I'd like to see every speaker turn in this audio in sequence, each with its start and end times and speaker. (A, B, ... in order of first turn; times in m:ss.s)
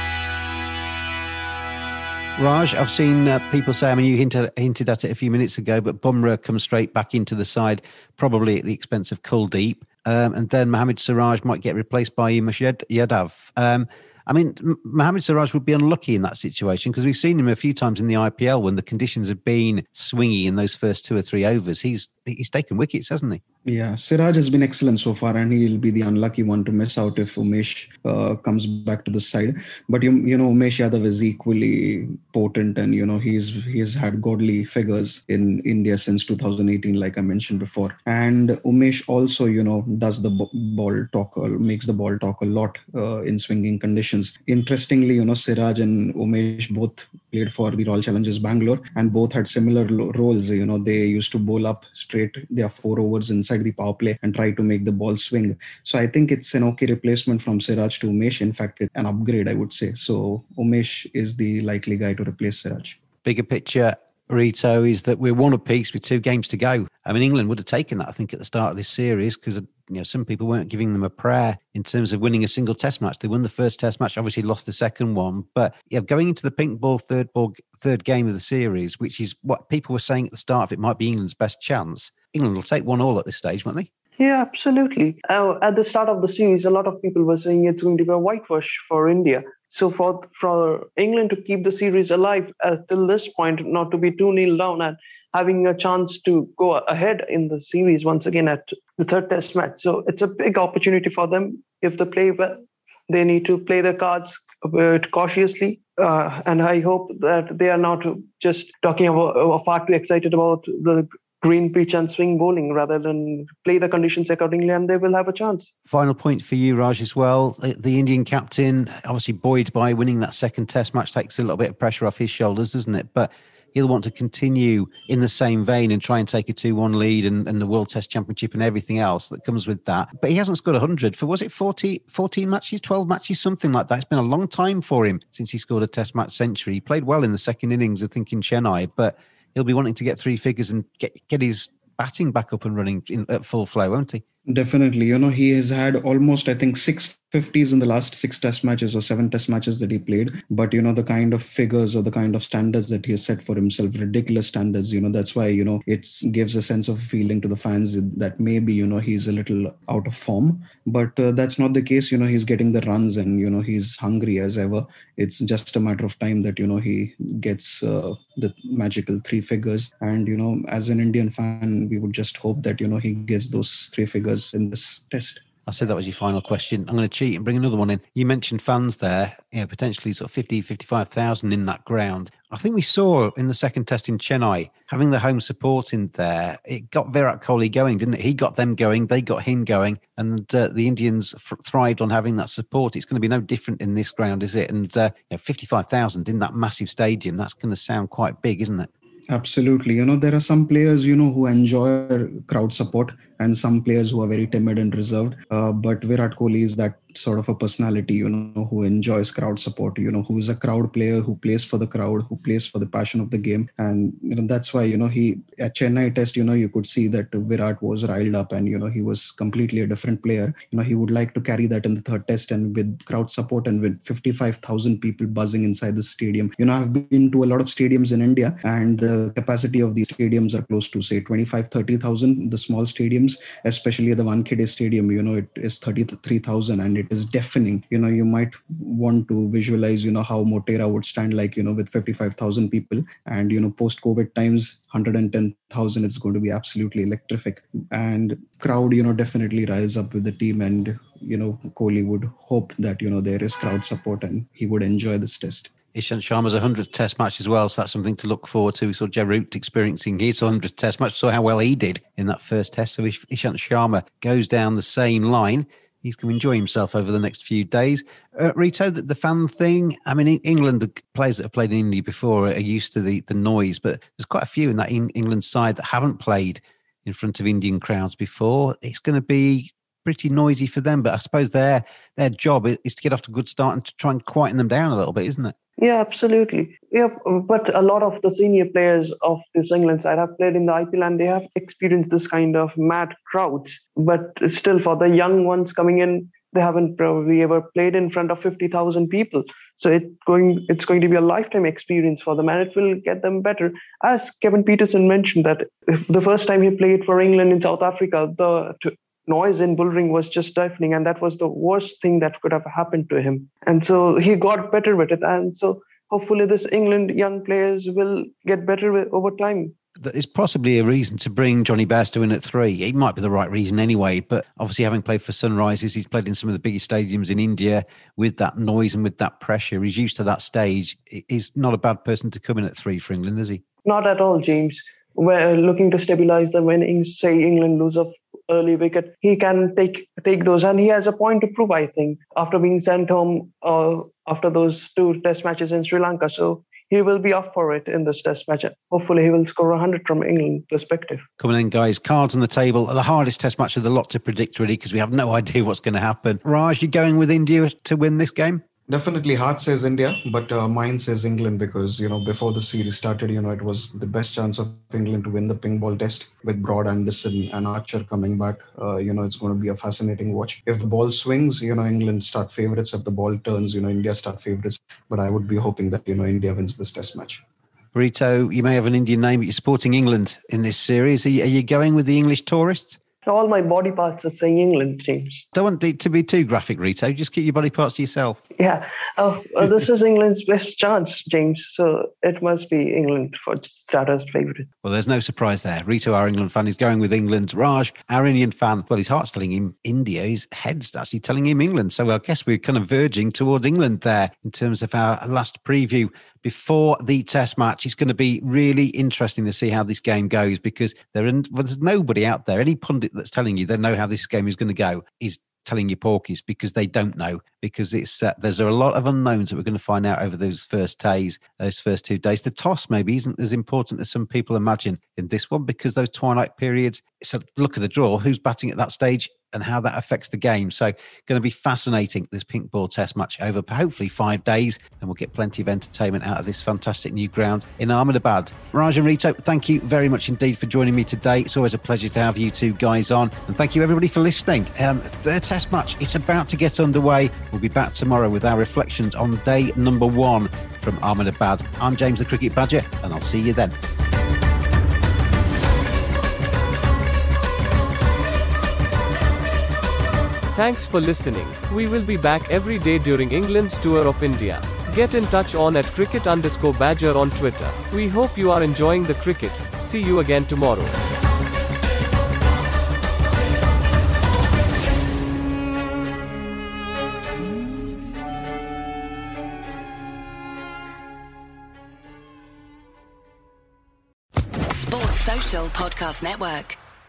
0:02.4-0:23.4 A
0:23.6-1:03.0 B
1:03.2-1:23.9 A
1:24.2-1:55.7 C
1:55.9-2:24.2 A
2:24.5-2:55.4 B
2:55.7-3:18.9 A
3:19.3-4:15.7 B
4:15.9-4:45.5 A
4:45.8-5:19.7 C
5:20.0-5:33.6 A
5:33.8-5:51.2 C
5:51.4-5:58.6 A
5:58.9-6:17.4 B
6:17.9-6:23.0 A
6:23.2-6:25.4 C
6:25.5-6:28.4 A
6:28.6-6:34.7 C
6:34.8-7:33.7 A
7:40.5-7:51.0 D
8:04.8-8:06.8 E